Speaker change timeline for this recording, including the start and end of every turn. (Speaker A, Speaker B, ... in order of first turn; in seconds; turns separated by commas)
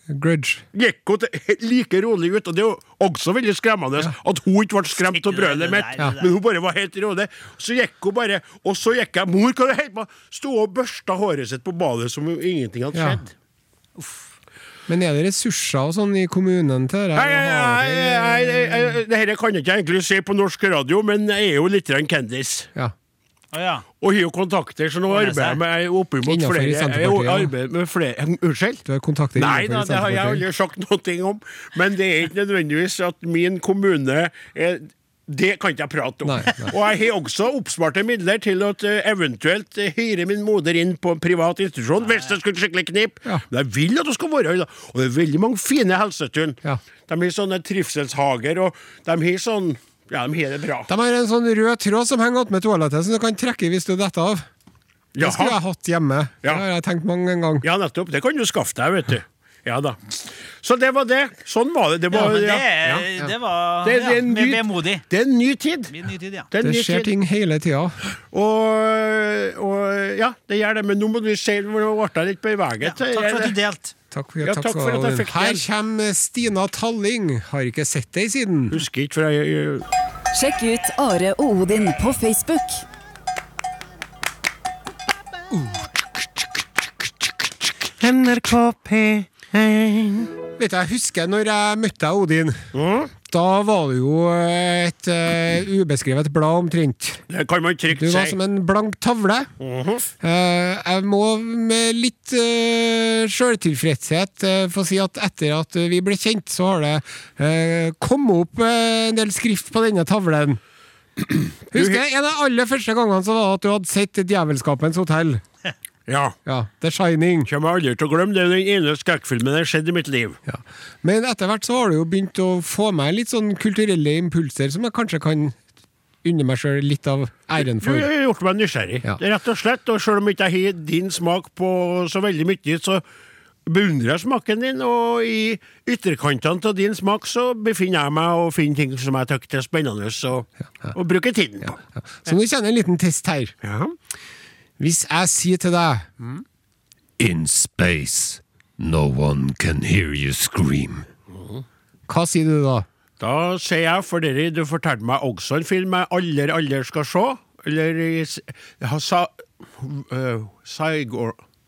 Speaker A: 0.1-0.7, Speaker B: 0.7-13.3, Speaker C: 5.1-6.3, Speaker A: 12.9-13.2, Speaker A: 14.9-19.0, Speaker B: 17.1-22.7, Speaker C: 23.5-23.9, Speaker B: 24.0-28.8, Speaker C: 25.1-25.6, Speaker A: 26.2-27.5, Speaker A: 28.9-30.4, Speaker B: 29.4-50.9, Speaker A: 36.2-36.7, Speaker A: 50.9-54.5, Speaker B: 55.1-55.6, Speaker A: 55.2-57.6, Speaker B: 57.6-63.1, Speaker C: 62.1-65.0, Speaker B: 63.8-65.9, Speaker C: 65.9-66.5, Speaker B: 66.5-67.1, Speaker A: 66.6-68.0, Speaker B: 68.3-73.6, Speaker C: 72.8-73.9, Speaker A: 74.1-78.8, Speaker B: 74.4-75.7, Speaker B: 78.7-79.8, Speaker D: 80.3-82.8, Speaker B: 87.8-90.3, Speaker A: 90.6-92.6, Speaker B: 92.7-93.1, Speaker A: 93.2-97.2, Speaker B: 97.3-98.4, Speaker A: 97.9-99.5, Speaker B: 99.6-100.1, Speaker A: 100.2-110.6, Speaker B: 111.7-112.0, Speaker A: 111.7-115.4, Speaker B: 116.1-116.4, Speaker A: 116.5-117.5, Speaker B: 117.5-120.4, Speaker A: 120.5-125.6, Speaker A: 126.2-128.1, Speaker B: 127.5-133.0, Speaker B: 133.7-141.8, Speaker A: 141.8-143.5, Speaker B: 143.6-143.9, Speaker A: 144.8-146.1, Speaker A: 147.2-151.1, Speaker B: 151.3-151.6, Speaker A: 152.1-152.9, Speaker B: 153.2-161.4